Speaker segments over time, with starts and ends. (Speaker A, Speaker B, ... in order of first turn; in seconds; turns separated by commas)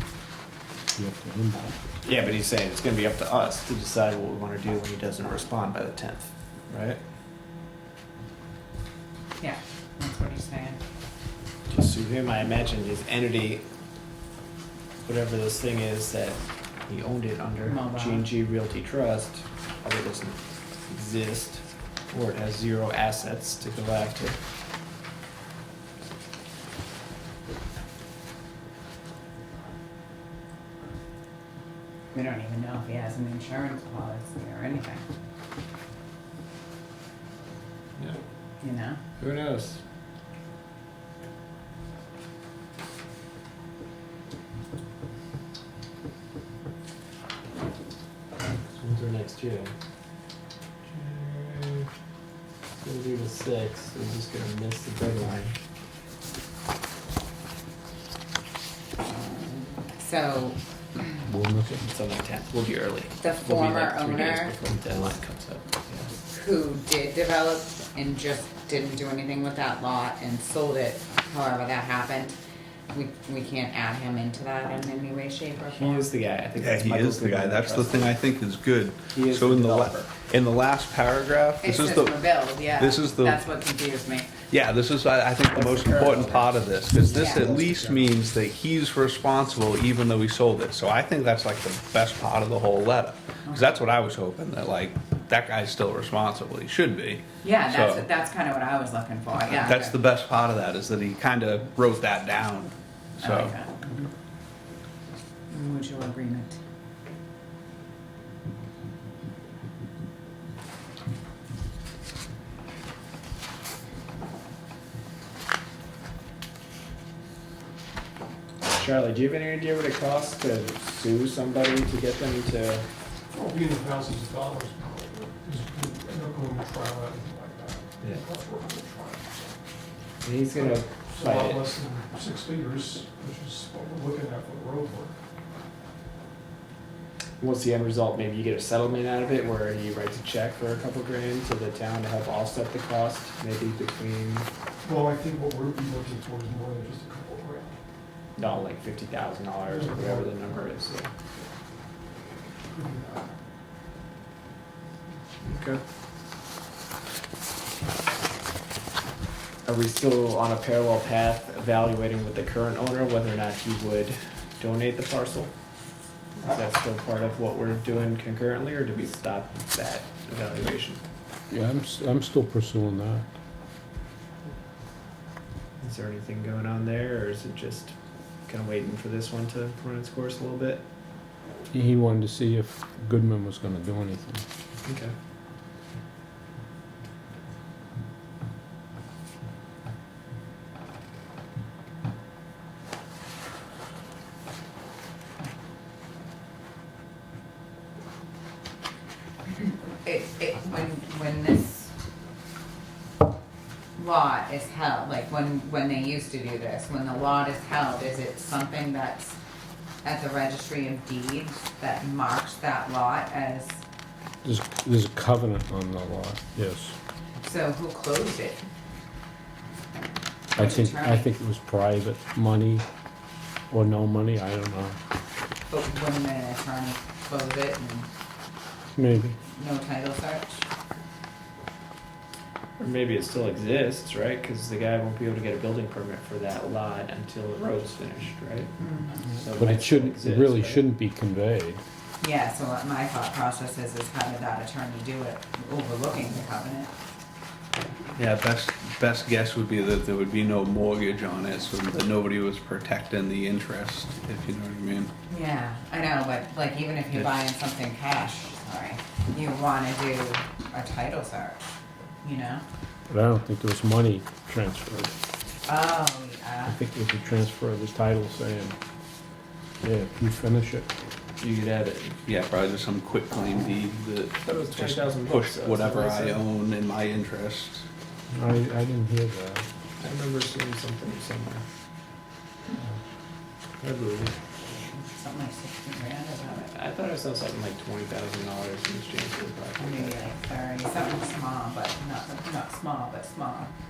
Speaker A: 1.0-1.8, Speaker B: 2.0-7.0, Speaker C: 9.4-10.8, Speaker B: 11.7-13.6, Speaker B: 15.1-24.4, Speaker C: 17.7-18.3, Speaker C: 32.1-35.0, Speaker C: 38.6-39.0, Speaker B: 39.2-39.8, Speaker B: 48.7-49.7, Speaker B: 50.9-51.9, Speaker B: 52.8-55.5, Speaker C: 59.1-61.2, Speaker A: 61.3-61.9, Speaker B: 61.9-66.1, Speaker C: 63.2-64.6, Speaker C: 66.3-72.4, Speaker C: 72.9-76.1, Speaker B: 75.7-78.1, Speaker D: 76.6-82.2, Speaker B: 79.1-80.1, Speaker C: 81.6-84.3, Speaker D: 82.8-83.4, Speaker D: 84.5-98.1, Speaker B: 85.5-88.2, Speaker C: 87.0-87.5, Speaker C: 93.5-93.8, Speaker C: 97.4-100.0, Speaker D: 99.5-103.5, Speaker C: 103.2-104.1, Speaker C: 105.5-106.6, Speaker B: 118.7-122.9, Speaker E: 123.3-129.5, Speaker B: 130.2-131.6, Speaker E: 130.5-135.2, Speaker B: 137.4-144.5, Speaker E: 144.8-147.8, Speaker B: 148.4-150.9, Speaker E: 149.7-151.3, Speaker E: 152.7-153.3, Speaker B: 155.4-155.8, Speaker B: 159.7-165.5, Speaker B: 166.4-171.0, Speaker A: 171.5-173.3, Speaker B: 175.8-177.9, Speaker B: 178.5-180.8, Speaker A: 181.7-184.4, Speaker B: 184.8-185.1, Speaker C: 200.0-201.9, Speaker C: 204.0-209.4, Speaker C: 210.0-213.8, Speaker A: 214.4-216.9, Speaker C: 217.4-218.6, Speaker C: 220.6-221.3, Speaker A: 220.6-222.8, Speaker A: 223.7-225.0, Speaker C: 225.7-228.1, Speaker A: 229.0-229.4, Speaker C: 229.5-230.7, Speaker B: 232.8-238.8, Speaker C: 238.8-239.2, Speaker B: 239.3-240.9, Speaker A: 239.6-241.8, Speaker C: 242.2-246.9, Speaker D: 248.2-255.1, Speaker C: 255.3-261.6, Speaker C: 262.2-262.6, Speaker A: 263.1-265.1, Speaker C: 265.7-266.8, Speaker A: 266.7-268.8, Speaker A: 269.8-270.9, Speaker B: 271.4-272.2, Speaker D: 272.3-277.9, Speaker B: 274.4-276.4, Speaker A: 278.3-279.7, Speaker B: 280.0-281.6, Speaker B: 283.8-284.4, Speaker C: 284.9-286.7, Speaker B: 286.6-290.2, Speaker C: 289.8-293.7